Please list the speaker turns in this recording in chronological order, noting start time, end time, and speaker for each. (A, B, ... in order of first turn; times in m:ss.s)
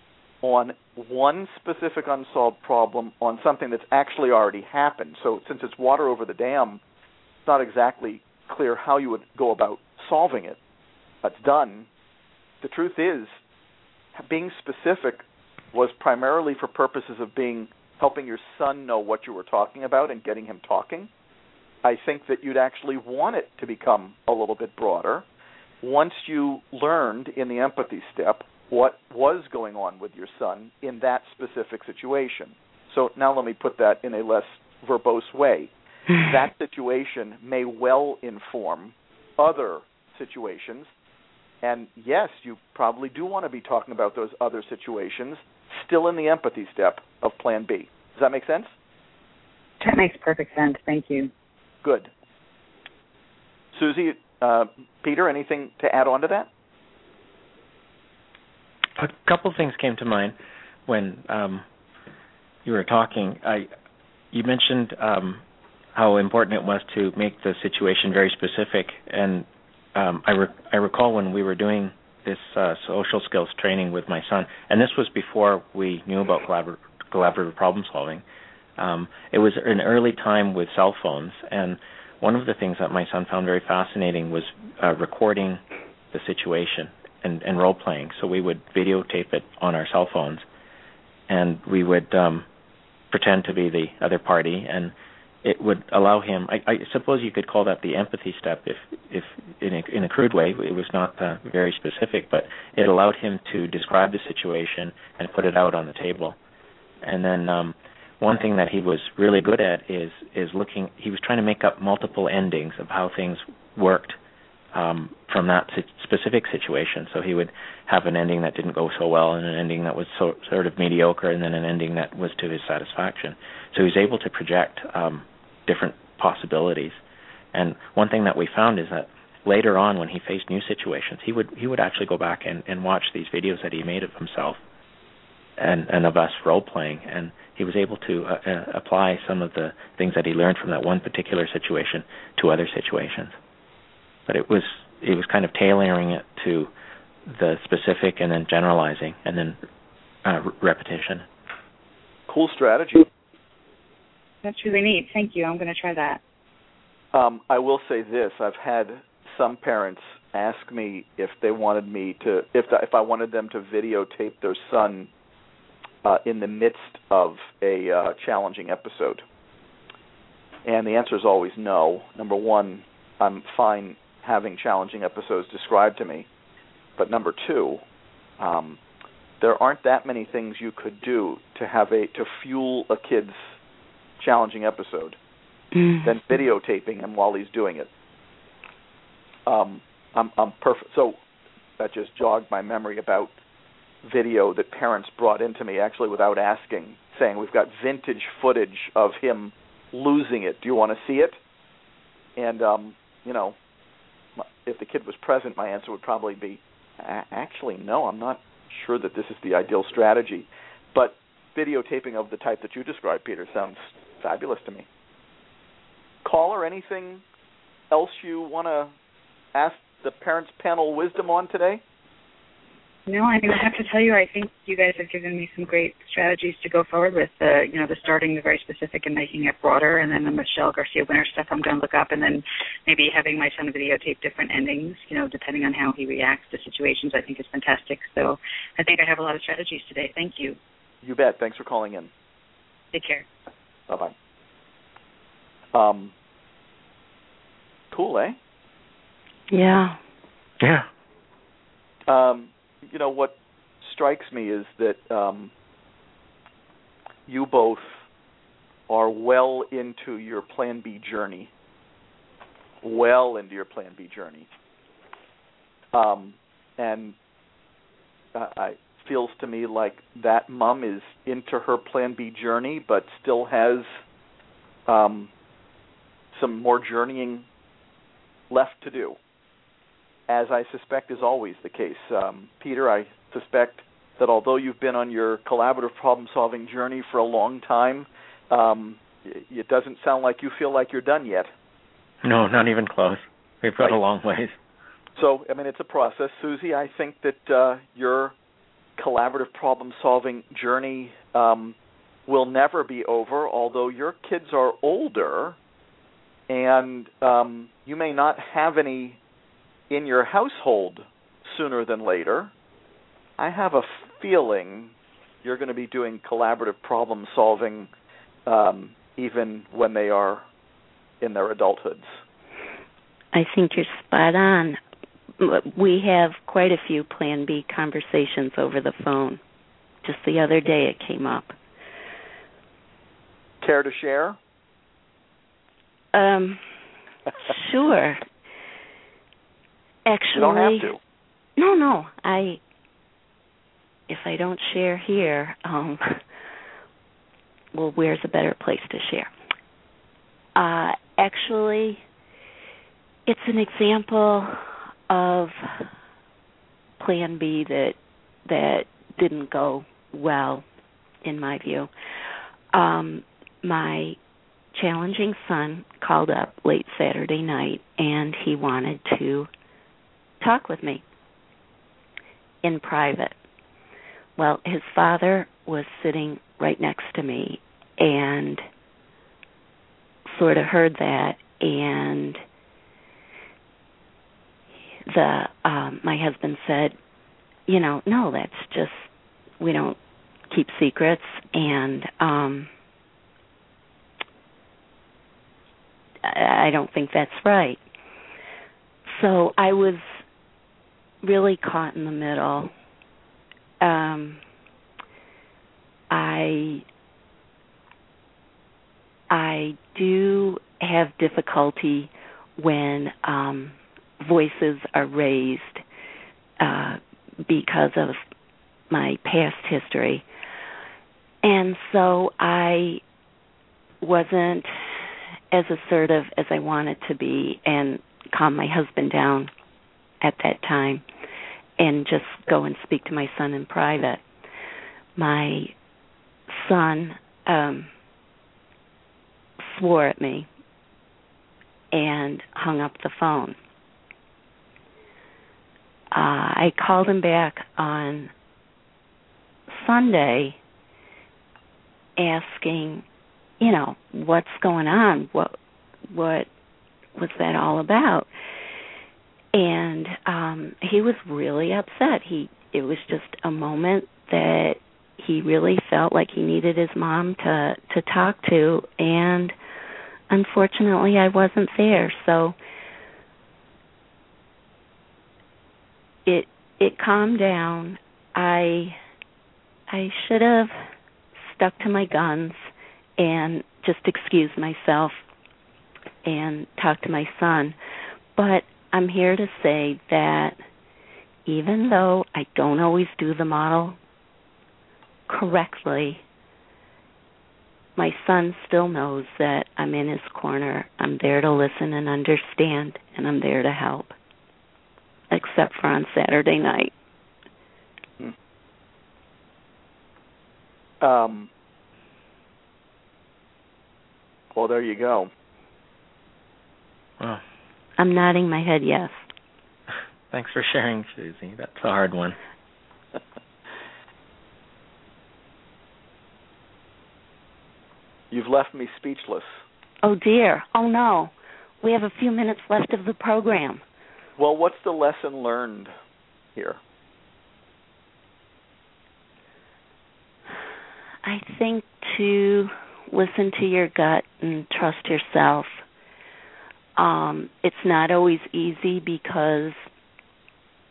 0:00.4-0:06.8 A
0:07.5-0:10.6 A
0:11.2-0:11.9 A
0:12.6-0:13.3 A
0:14.2-0:21.1 A
0:21.8-0:25.3 A
0:25.8-0:35.7 A
0:36.2-0:40.9 A
0:41.6-0:48.7 A
0:49.8-0:51.3 B
0:51.8-0:52.1 A
0:53.7-0:56.5 A
0:59.0-1:00.3 C
1:00.9-1:01.6 C
1:02.6-1:03.7 C
1:04.3-1:05.4 C
1:06.0-1:18.2 C
1:18.8-1:25.6 C
1:26.1-1:30.4 C
1:31.3-1:32.5 C
1:33.1-1:46.4 C
1:47.0-1:54.2 C
1:54.7-2:07.0 C
2:07.5-2:14.6 C
2:15.6-2:23.3 C
2:24.3-2:26.7 C
2:27.2-2:29.6 C
2:30.2-2:31.2 C
2:32.3-2:33.1 A
2:34.4-2:36.2 B
2:37.1-2:45.1 A
2:46.0-2:49.2 A
2:50.6-2:56.3 A
2:57.0-2:57.8 A
2:58.4-2:58.8 A
2:59.4-3:03.4 A
3:04.2-3:05.2 A
3:05.7-3:06.1 D
3:06.0-3:07.9 A
3:09.5-3:11.2 A
3:11.8-3:13.3 A
3:14.0-3:21.4 A
3:22.4-3:23.6 A
3:24.4-3:34.9 A
3:36.2-3:37.2 A
3:37.9-3:38.9 A
3:39.5-3:41.8 A
3:43.1-4:00.6 B
4:01.0-4:02.1 A
4:02.9-4:03.3 B
4:03.9-4:04.1 A
4:05.7-4:06.1 A
4:07.9-4:08.4 A
4:09.5-4:10.0 D
4:10.6-4:10.9 C
4:12.1-4:15.5 A
4:17.3-4:18.0 A
4:18.9-4:21.5 A
4:22.8-4:24.5 A
4:25.9-4:27.2 A
4:28.3-4:33.9 A
4:34.9-4:35.3 A
4:36.3-4:37.5 A
4:38.5-4:39.2 A
4:40.3-4:51.5 A
4:52.2-4:54.6 C
4:55.2-4:58.4 A
4:59.0-5:05.6 A
5:06.5-5:09.2 A
5:09.9-5:12.5 A
5:13.4-5:14.9 A
5:15.4-5:17.9 A
5:18.5-5:20.4 A
5:21.2-5:22.1 A
5:23.3-5:24.8 D
5:25.4-5:29.4 D
5:30.0-5:31.5 D
5:33.6-5:34.4 A
5:36.1-5:36.6 D
5:37.4-5:38.2 D
5:40.1-5:40.9 D
5:40.3-5:41.0 A
5:41.6-5:42.6 D
5:44.1-5:46.2 D
5:47.7-5:49.3 D
5:50.6-5:52.0 D
5:53.3-5:55.9 D
5:57.0-6:00.6 D
6:01.2-6:01.9 D
6:02.7-6:04.2 D
6:04.7-6:09.5 D
6:10.4-6:11.0 D
6:12.6-6:13.3 D
6:14.4-6:18.6 D
6:20.3-6:22.4 D
6:25.1-6:27.0 D
6:27.7-6:29.1 D
6:29.6-6:30.0 D
6:30.5-6:32.7 D
6:36.2-6:37.8 D
6:39.1-6:40.0 D
6:41.2-6:42.7 D
6:43.8-6:44.4 D
6:46.1-6:46.8 D
6:49.3-6:55.8 D
6:56.6-6:58.2 D
6:58.9-7:00.2 D
7:01.4-7:03.0 D
7:04.0-7:09.5 D
7:10.2-7:11.0 D
7:11.8-7:14.2 D
7:15.2-7:15.7 D
7:16.5-7:17.9 D
7:19.7-7:20.5 D
7:21.9-7:23.6 D
7:26.1-7:28.3 D
7:29.7-7:30.6 D
7:32.2-7:33.0 D
7:33.6-7:35.5 D
7:36.1-7:36.5 D
7:37.2-7:38.3 D
7:39.5-7:49.5 D
7:50.3-7:52.6 D
7:56.3-7:59.0 D
7:59.9-8:00.7 D
8:01.5-8:05.2 D
8:06.2-8:07.8 D
8:08.4-8:10.6 D
8:11.5-8:14.0 D
8:15.3-8:16.2 D
8:18.0-8:24.1 D
8:25.3-8:26.9 D
8:31.0-8:31.5 A
8:34.5-8:35.3 A
8:38.0-8:39.2 D
8:40.3-8:42.4 C
8:48.3-8:49.5 A
8:50.0-8:53.8 D
8:54.4-8:55.9 A
8:56.6-8:56.8 A
9:01.2-9:05.7 D
9:07.0-9:09.8 D